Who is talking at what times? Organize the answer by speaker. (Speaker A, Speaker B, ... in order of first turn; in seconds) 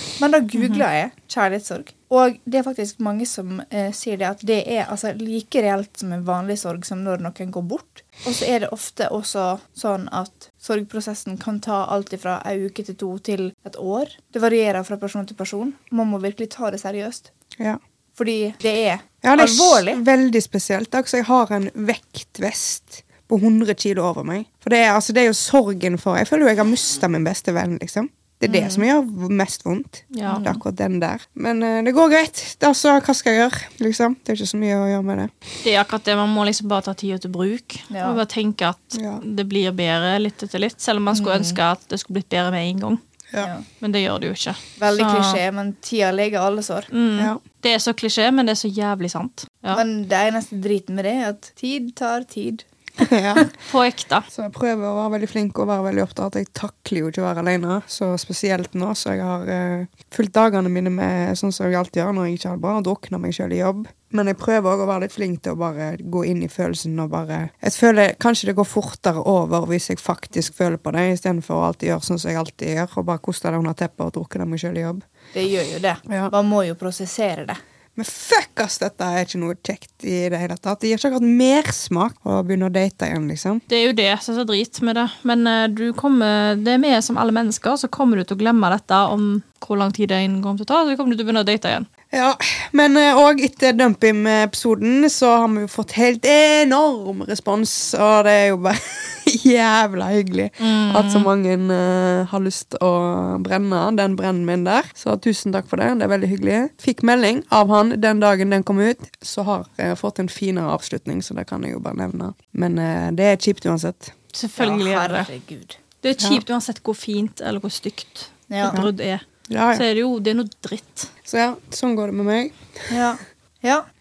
Speaker A: 0.2-17.3, 18.2-20.0, 28.4-28.8, 30.3-30.6, 37.9-38.2, 41.1-41.6, 44.8-46.9, 49.7-52.6, 75.3-77.6, 114.6-115.8, 118.5-118.8, 122.9-123.8
Speaker B: 19.2-35.3, 38.9-39.2, 53.0-53.5, 54.3-75.0, 78.0-83.6, 92.1-114.1, 119.5-119.8, 121.2-122.9
Speaker C: 30.1-30.4, 35.6-43.0, 43.7-45.4, 46.9-49.8, 53.4-54.3, 83.7-91.9, 100.6-101.3, 114.3-115.3, 116.0-121.1